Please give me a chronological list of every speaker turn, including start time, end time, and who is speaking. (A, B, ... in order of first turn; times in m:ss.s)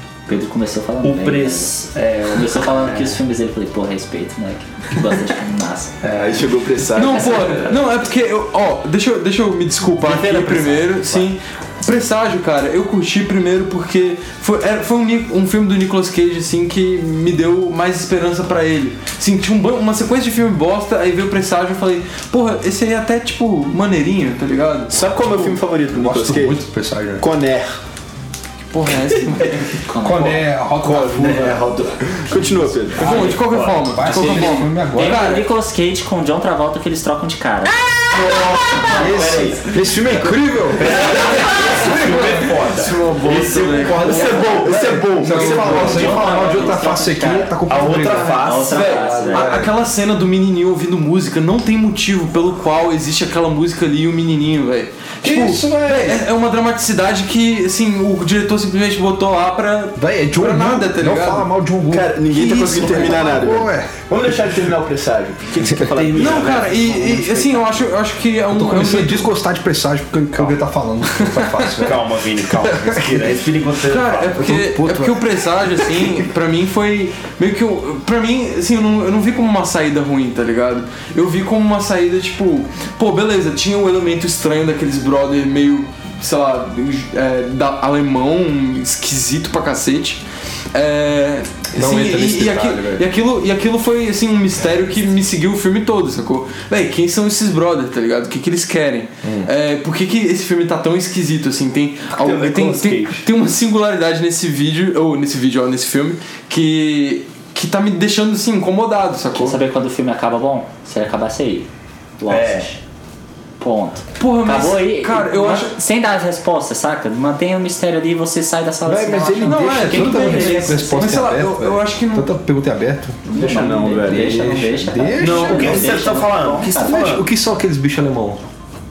0:00.3-0:01.7 A
0:01.0-0:03.2 B
0:02.3-0:06.0 A
0:06.1-0:06.4 B
0:06.1-0:07.7 C
0:06.9-0:25.6 D
0:07.2-0:07.7 A
0:10.0-0:11.3 A
0:24.9-0:26.6 C
0:25.9-0:27.2 E
0:27.2-0:27.8 C
0:28.7-0:29.7 D
0:29.8-0:30.5 A
0:30.0-0:31.7 E
0:30.0-0:32.4 B
0:31.4-0:31.8 A
0:32.3-0:33.1 C
0:33.0-0:34.5 B
0:33.0-0:35.5 D
0:33.2-0:35.4 E
0:34.9-0:37.9 A
0:38.2-0:39.5 C
0:38.8-0:39.6 A
0:38.9-0:39.6 B
0:39.0-0:42.5 E
0:40.7-0:45.0 B
0:42.0-0:44.6 D
0:44.0-0:46.4 C
0:44.3-0:44.6 A
0:44.9-0:49.8 E
0:45.2-0:46.0 D
0:45.5-0:49.6 A
0:47.7-0:48.9 B
0:48.2-1:01.5 D
0:55.2-0:56.2 E
1:00.0-1:03.9 E
1:01.9-1:06.6 C
1:02.7-1:03.0 D
1:05.6-1:07.9 B
1:06.1-1:09.3 D
1:08.5-1:13.4 E
1:11.8-1:14.5 B
1:13.8-1:49.6 D
1:14.3-1:16.2 E
1:31.7-1:33.0 E
1:39.2-1:39.5 E
1:42.1-1:43.2 B
1:49.3-1:51.7 A
1:52.2-1:52.8 A
1:52.3-1:52.8 B
1:53.6-2:01.3 A
1:54.2-1:55.8 D
1:58.8-2:03.3 E
1:59.4-2:02.3 D
2:03.3-2:07.1 A
2:03.3-2:04.7 C
2:04.0-2:05.9 E
2:05.2-2:07.3 B
2:06.8-2:08.4 E